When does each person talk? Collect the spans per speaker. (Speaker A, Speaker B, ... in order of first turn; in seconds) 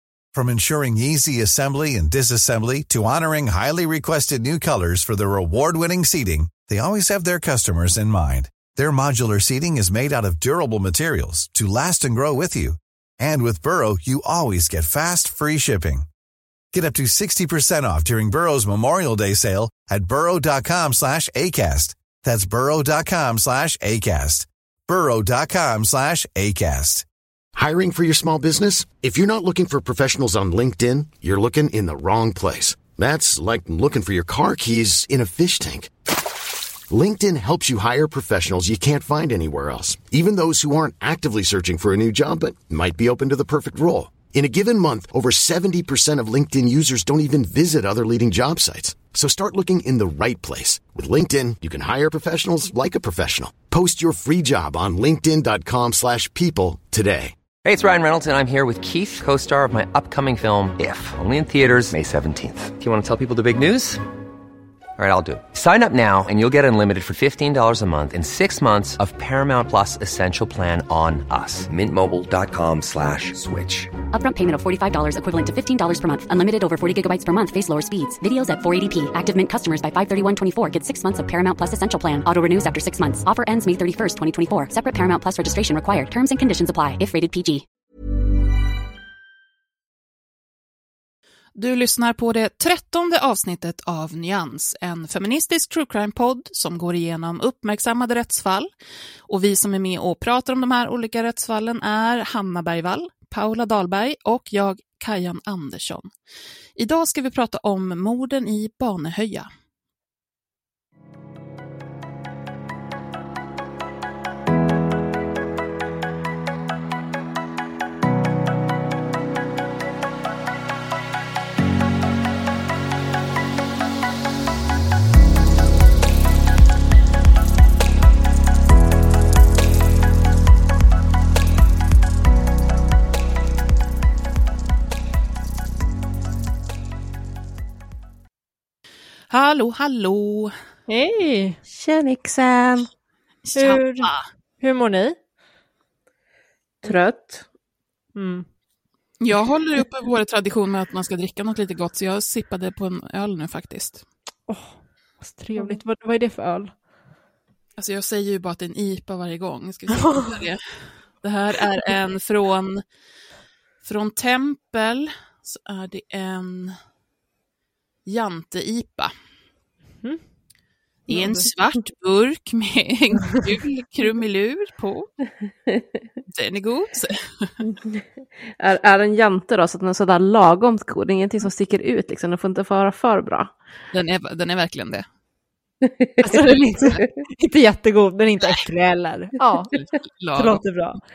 Speaker A: 0.3-16.1, 16.7-27.1
Speaker B: 27.6-36.3, 36.9-57.3
Speaker C: 57.6-64.0, 65.0-74.0
Speaker D: 74.1-87.7
Speaker E: 91.5-98.7, 99.3-106.1, 106.8-109.5, 139.3-140.5, 143.4-144.2, 149.2-154.0, 157.8-160.6, 161.2-162.8, 163.8-166.8, 168.1-169.1, 171.1-175.1, 176.3-177.6, 183.9-185.0, 189.7-190.6
Speaker F: 140.9-141.6, 143.5-145.2, 148.1-148.4, 154.5-156.7, 171.1-171.5, 186.2-189.7, 190.3-191.0
Speaker G: 141.7-142.9, 146.8-147.4, 177.6-178.1, 178.6-183.5, 185.8-186.4